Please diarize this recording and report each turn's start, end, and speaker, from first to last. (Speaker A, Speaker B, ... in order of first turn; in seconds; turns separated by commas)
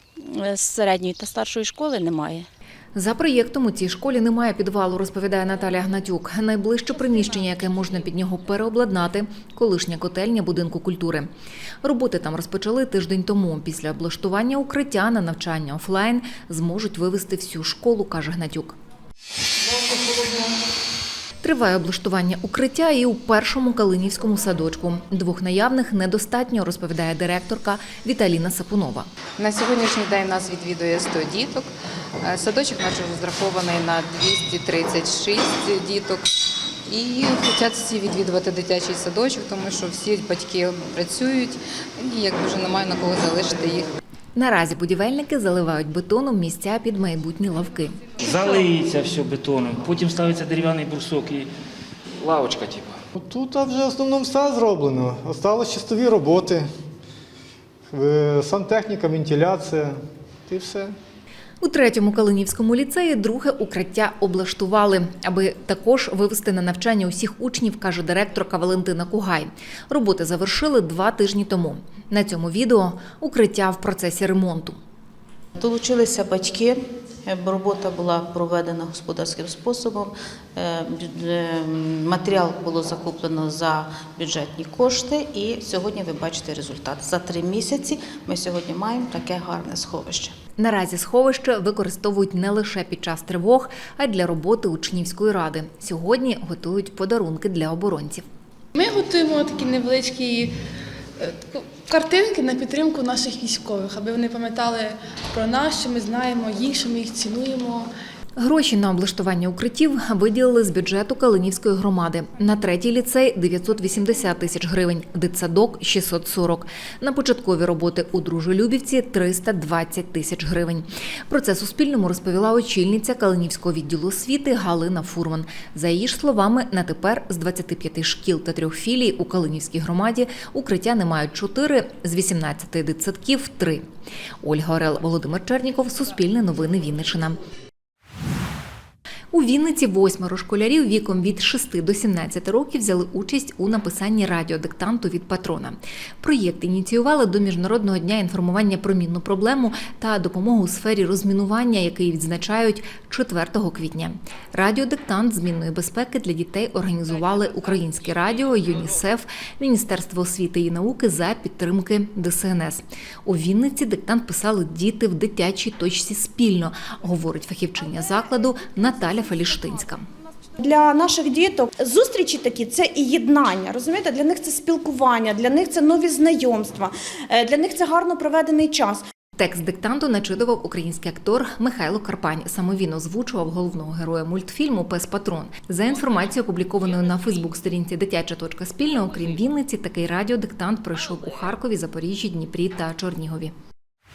Speaker A: 3.0-11.3, Speaker A: 11.8-18.8, Speaker A: 21.4-29.1, Speaker B: 29.4-43.9, Speaker A: 44.4-48.0, Speaker C: 48.3-51.5, Speaker C: 52.2-52.9, Speaker D: 53.1-56.7, Speaker D: 57.9-60.9, Speaker A: 61.6-74.8, Speaker E: 75.5-90.3, Speaker A: 90.6-98.2, Speaker F: 98.8-100.5, Speaker F: 101.2-107.9, Speaker A: 108.4-133.8, Speaker A: 134.4-137.4, Speaker A: 139.3-170.0, Speaker G: 170.6-179.0, Speaker A: 179.4-193.5